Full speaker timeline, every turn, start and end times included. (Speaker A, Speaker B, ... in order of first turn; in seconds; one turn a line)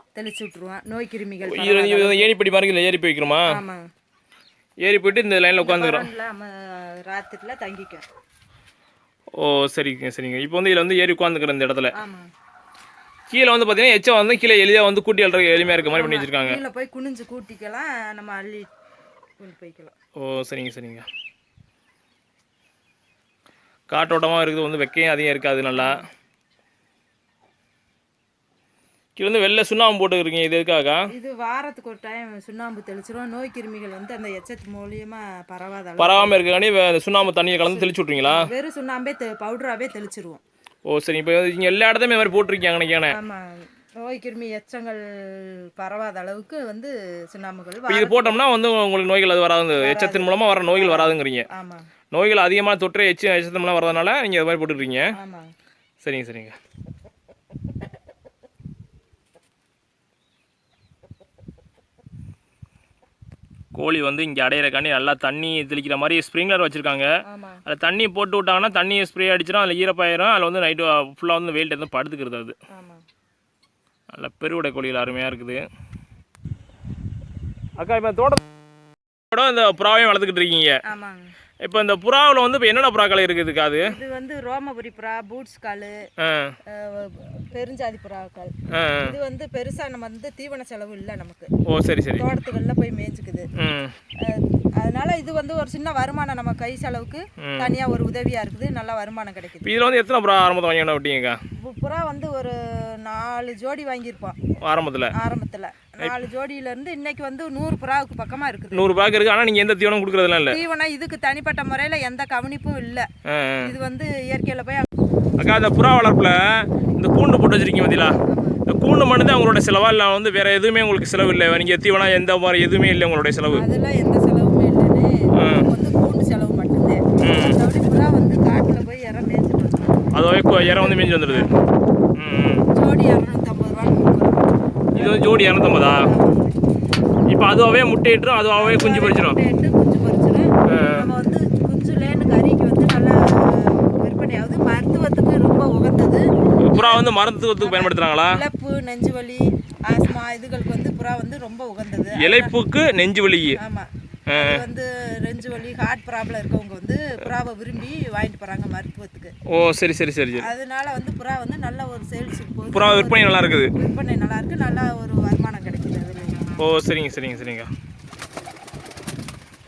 Speaker A: 0.1-2.3
Speaker B: 1.4-3.6
Speaker A: 3.5-3.9
Speaker B: 4.8-6.1
Speaker A: 5.6-8.1
Speaker B: 9.4-11.9
Speaker A: 11.9-12.3
Speaker B: 13.3-16.6
Speaker A: 15.6-18.7
Speaker A: 19.4-19.9
Speaker B: 20.2-21.1
Speaker B: 23.9-26.0
Speaker A: 25.7-26.0
Speaker B: 29.2-31.1
Speaker A: 31.1-36.4
Speaker B: 36.0-38.5
Speaker A: 37.7-40.4
Speaker B: 40.9-43.2
Speaker A: 43.1-48.4
Speaker B: 47.9-51.5
Speaker A: 49.8-51.9
Speaker B: 52.1-55.1
Speaker A: 55.2-55.5
Speaker B: 56.0-56.6
Speaker B: 63.7-67.1
Speaker A: 67.2-67.6
Speaker B: 67.7-72.5
Speaker A: 72.7-73.0
Speaker B: 74.1-75.6
Speaker B: 77.8-78.4
Speaker B: 79.3-80.8
Speaker A: 80.9-81.3
Speaker B: 81.6-83.9
Speaker A: 83.8-86.1
Speaker B: 86.2-86.6
Speaker A: 86.7-91.5
Speaker B: 88.7-89.2
Speaker B: 91.7-92.2
Speaker A: 92.2-93.5
Speaker B: 93.6-94.0
Speaker A: 94.2-99.8
Speaker B: 97.4-97.7
Speaker B: 99.6-101.4
Speaker A: 101.6-104.4
Speaker B: 104.6-105.1
Speaker A: 105.1-108.9
Speaker B: 108.7-110.6
Speaker A: 110.5-113.1
Speaker B: 113.2-113.7
Speaker A: 113.6-114.9
Speaker B: 115.4-123.6
Speaker A: 118.0-118.6
Speaker A: 123.5-131.7
Speaker B: 125.3-125.7
Speaker B: 127.2-127.6
Speaker B: 130.1-131.5
Speaker B: 132.2-132.7
Speaker A: 132.7-136.6
Speaker B: 134.9-136.1
Speaker B: 137.3-139.4
Speaker A: 138.6-147.1
Speaker B: 140.7-141.1
Speaker B: 146.6-148.4
Speaker A: 147.6-152.6
Speaker B: 152.2-153.6
Speaker A: 153.6-159.3
Speaker B: 154.3-154.6
Speaker B: 159.5-160.5
Speaker A: 160.4-166.6
Speaker B: 162.7-163.8
Speaker B: 166.6-167.7